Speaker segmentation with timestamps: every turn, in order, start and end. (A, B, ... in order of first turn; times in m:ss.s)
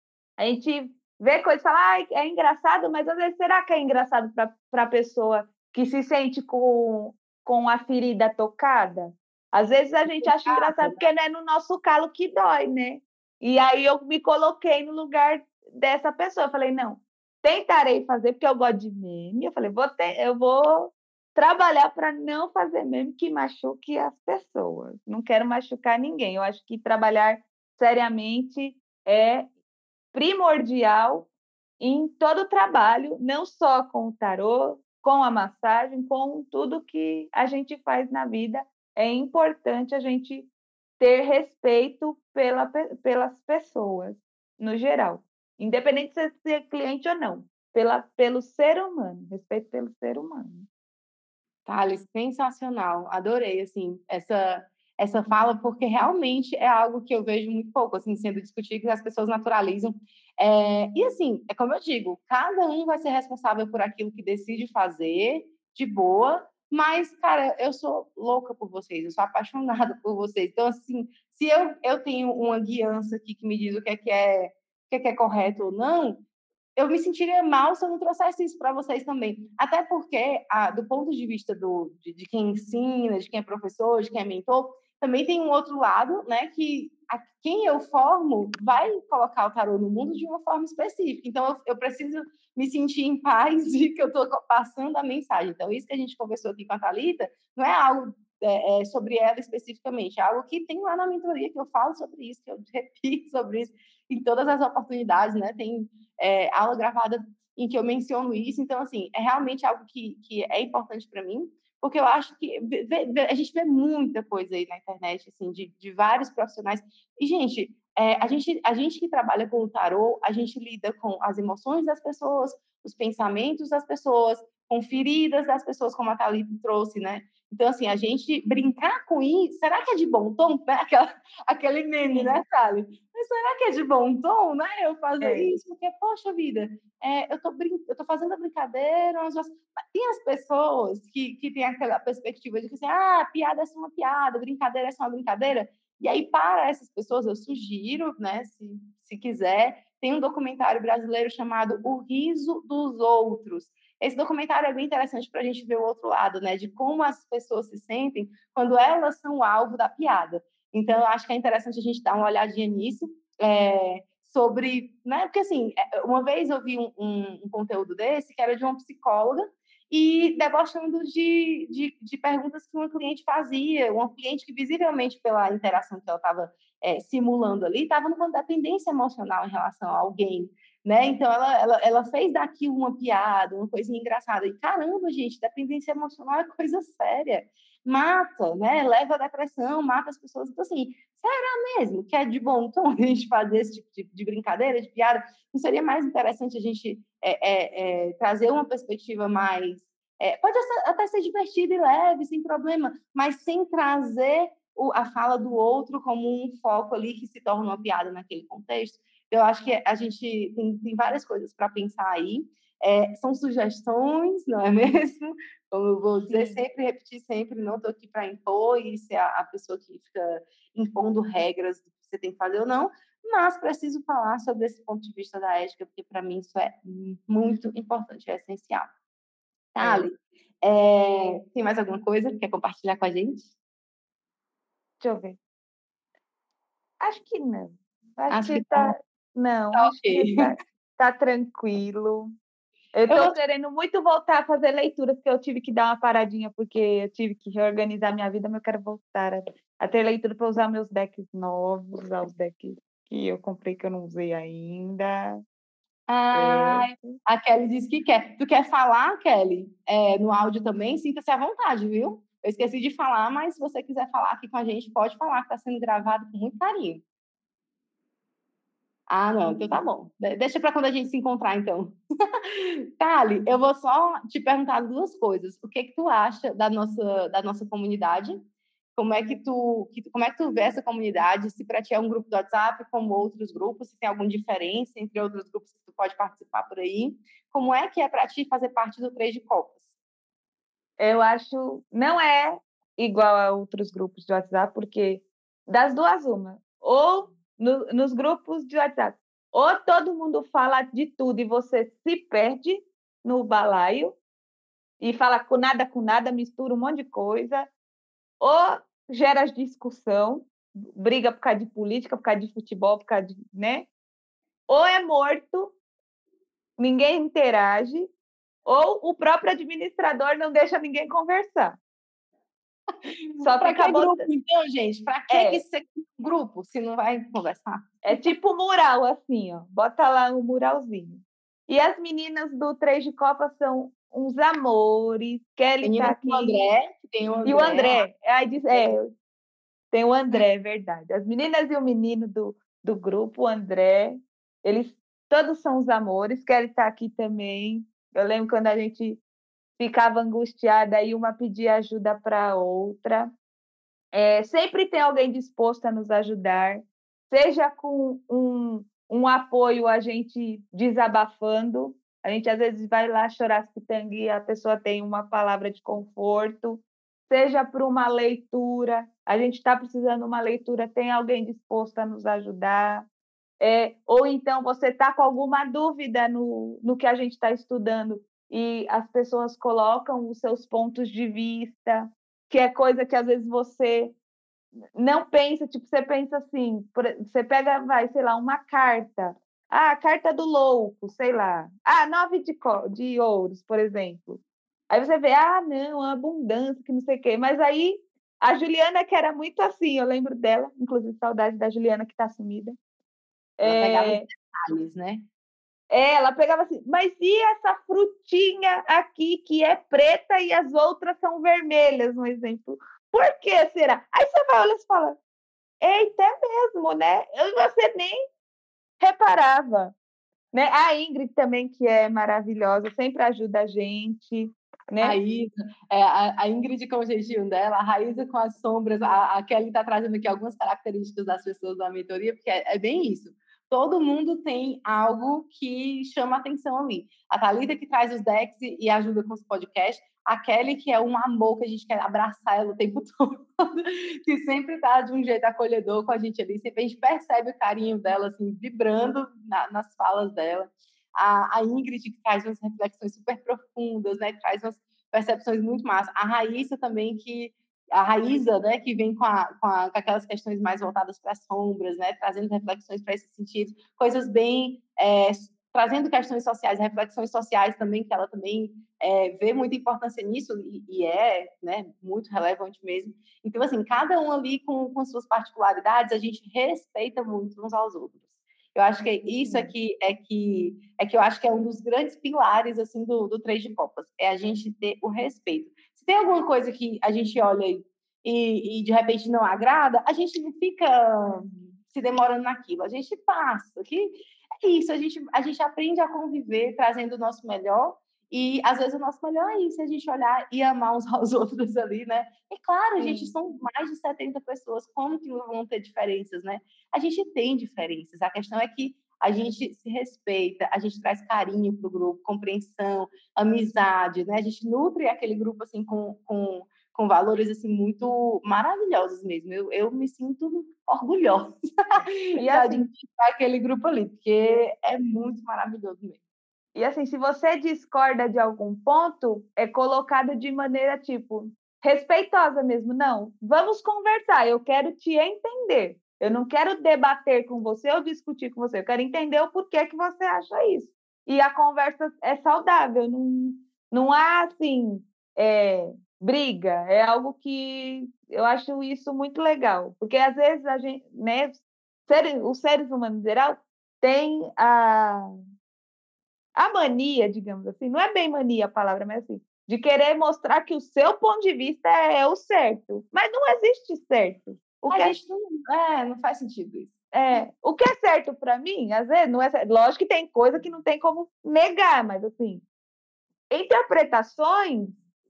0:00.4-0:29.5 A
0:10.1-0:11.1 B
0:30.1-0:31.3 A
0:31.8-0:50.7 A
0:51.7-1:16.2 B
1:16.8-3:48.9 B
2:12.1-2:12.4 A
2:15.2-2:15.5 A
3:36.3-3:36.6 A
3:49.8-3:53.5 B
3:49.8-3:50.1 A
3:55.0-3:55.4 A
3:57.0-4:02.3 A
3:58.3-3:58.9 B
3:59.7-4:00.5 B
4:03.0-4:15.4 A
4:03.1-4:03.4 B
4:16.1-4:27.0 B
4:16.3-4:17.2 A
4:29.1-4:38.4 B
4:39.0-4:49.9 B
4:51.0-5:04.2 A
5:05.0-5:07.7 A
5:08.4-5:13.9 A
5:14.7-5:15.8 A
5:16.8-5:18.1 A
5:18.7-5:21.8 A
5:23.0-5:28.2 B
5:23.4-5:24.3 A
5:25.3-5:25.6 A
5:28.0-5:36.6 A
5:35.8-5:38.0 B
5:37.4-5:39.1 A
5:39.9-5:49.2 A
5:49.8-5:53.3 A
5:54.1-6:13.1 A
6:13.6-6:24.1 A
6:25.0-6:42.8 A
6:43.6-6:44.3 A
6:43.6-6:45.3 B
6:45.9-6:55.2 A
6:55.8-6:58.2 A
6:59.0-6:59.9 A
7:00.5-7:05.2 A
7:05.0-8:46.2 B
7:59.4-7:59.7 A
8:23.0-8:23.3 A
8:42.4-8:42.9 A
8:46.8-9:15.3 A
9:16.6-9:25.1 A
9:24.9-9:27.0 B
9:27.1-9:32.6 A
9:33.5-9:35.0 A